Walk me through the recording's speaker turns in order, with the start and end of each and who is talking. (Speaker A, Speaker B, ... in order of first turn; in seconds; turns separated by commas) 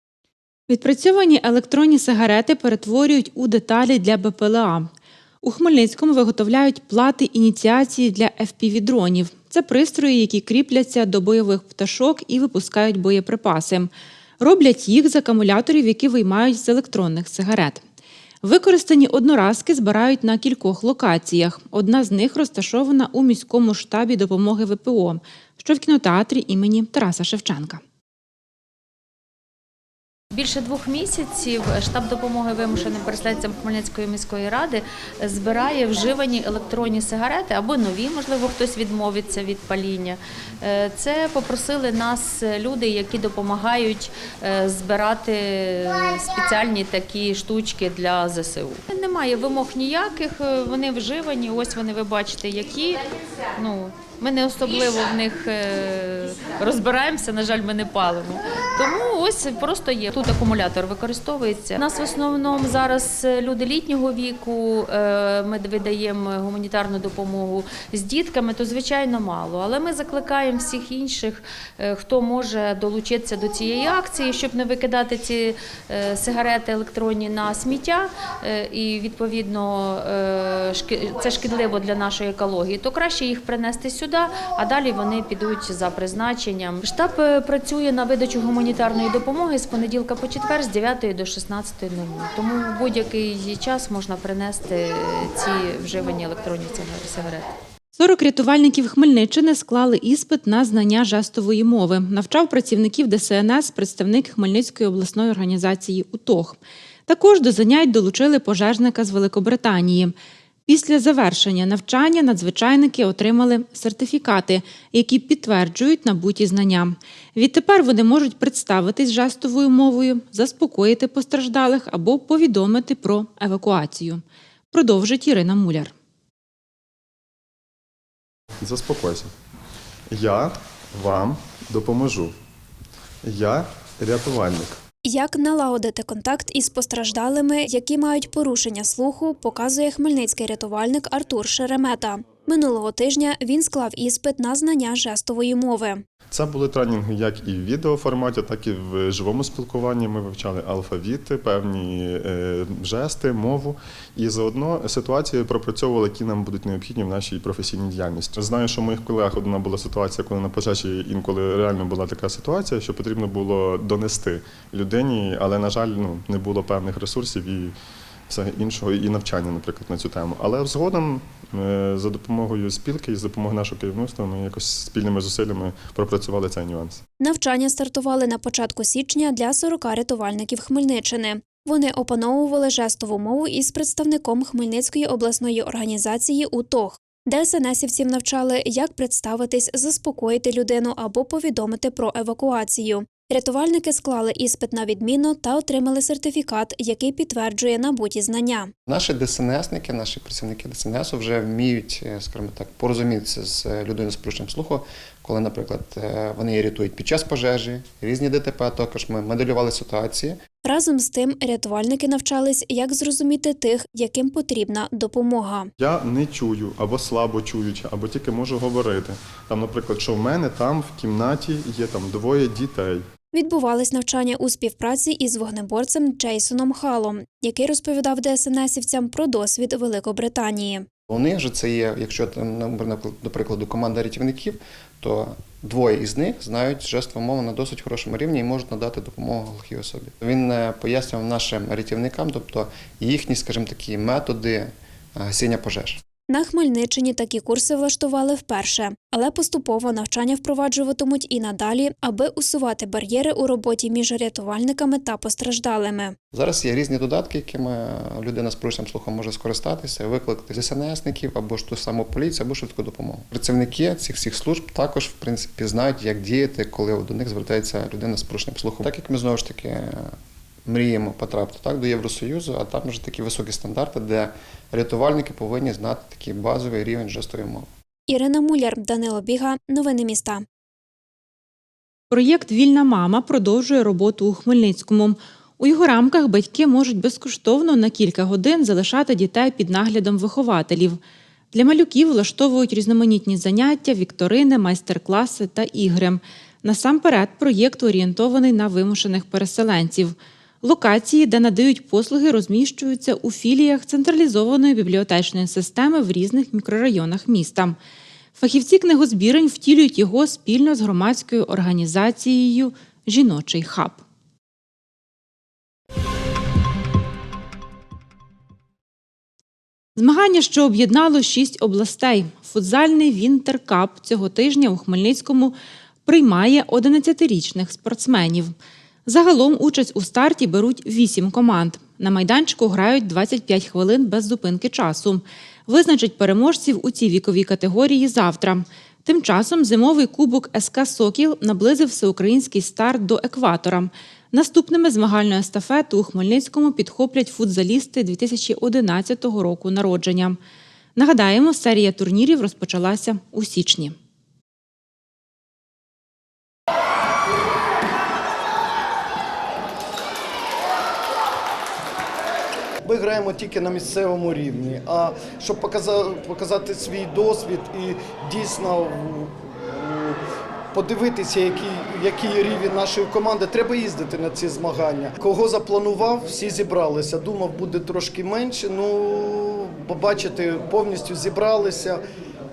Speaker A: 0.7-4.9, Speaker A: 5.4-13.9, Speaker A: 14.4-17.8, Speaker A: 18.4-27.8, Speaker B: 30.3-97.5, Speaker A: 97.9-110.1, Speaker A: 110.7-125.9, Speaker C: 128.6-129.3, Speaker C: 130.1-132.3, Speaker C: 133.2-134.8, Speaker D: 135.0-146.0, Speaker C: 146.3-167.7, Speaker C: 168.3-177.0, Speaker D: 177.2-198.7, Speaker E: 198.9-210.4, Speaker D: 210.6-215.7, Speaker C: 215.8-223.0, Speaker D: 223.3-230.8, Speaker E: 231.1-246.0, Speaker D: 246.3-256.1, Speaker E: 256.3-270.1, Speaker E: 270.7-277.7, Speaker D: 278.1-280.4, Speaker A: 282.1-291.0, Speaker A: 291.5-307.8, Speaker A: 308.4-314.0, Speaker A: 319.9-325.5, Speaker A: 326.1-328.5, Speaker A: 329.1-350.4, Speaker A: 350.9-353.9, Speaker F: 362.8-370.2, Speaker F: 370.7-382.0